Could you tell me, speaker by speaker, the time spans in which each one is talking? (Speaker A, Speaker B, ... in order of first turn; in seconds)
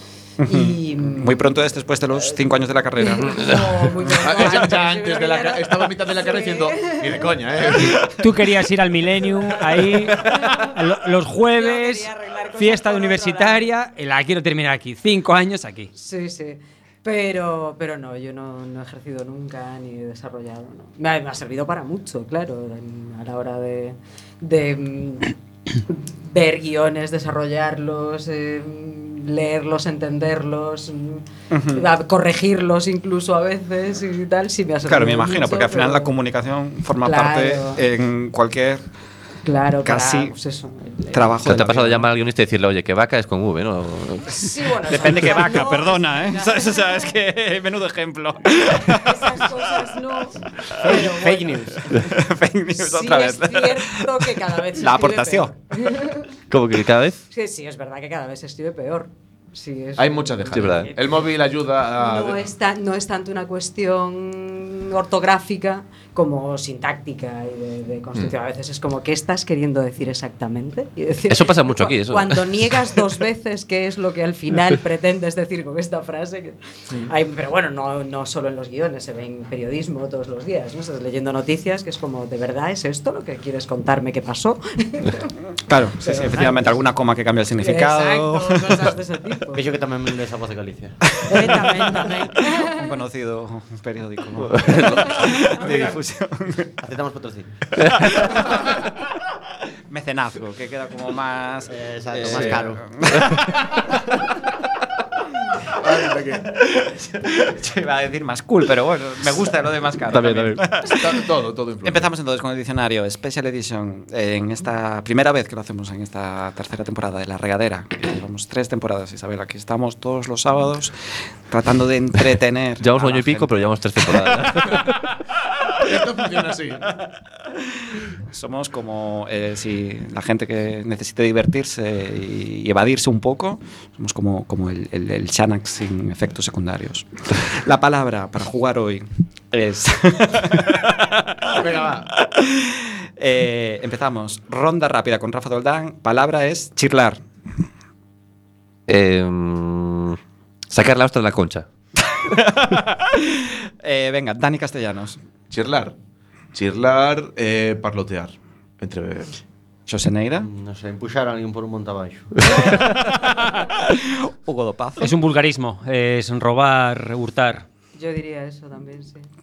Speaker A: 0.4-3.6, 31.5-31.9, 34.8-38.8, 39.8-40.3, 41.1-42.1, 44.9-49.5, 50.8-55.5, 85.6-88.9, 91.1-96.7, 97.9-98.8, 99.9-103.9, 105.9-111.3, 111.8-124.5, 128.1-147.2, 152.1-155.2, 159.9-160.5, 163.8-165.1
Speaker B: 0.4-1.5, 3.0-8.1, 9.5-10.8, 11.5-13.7, 15.9-36.1, 37.0-37.8, 39.4-41.4, 44.3-47.1, 48.7-51.7, 52.8-56.3, 57.3-61.2, 62.0-85.3, 86.0-86.7, 87.6-89.6, 91.2-93.0, 95.0-95.8, 162.4-162.8, 167.9-169.2
Speaker C: 4.0-8.2, 60.0-62.5, 105.8-106.5, 110.8-112.1, 125.7-126.9, 141.5-142.1, 155.5-155.9, 156.5-159.4
Speaker D: 8.2-15.9, 165.0-167.6
Speaker E: 41.4-44.5, 56.5-57.2, 60.5-60.9, 71.3-72.8, 94.5-95.2, 110.1-110.6, 122.8-125.0, 148.9-150.2, 150.7-151.7
Speaker F: 89.5-91.1, 96.8-97.6, 101.7-102.8, 160.4-162.5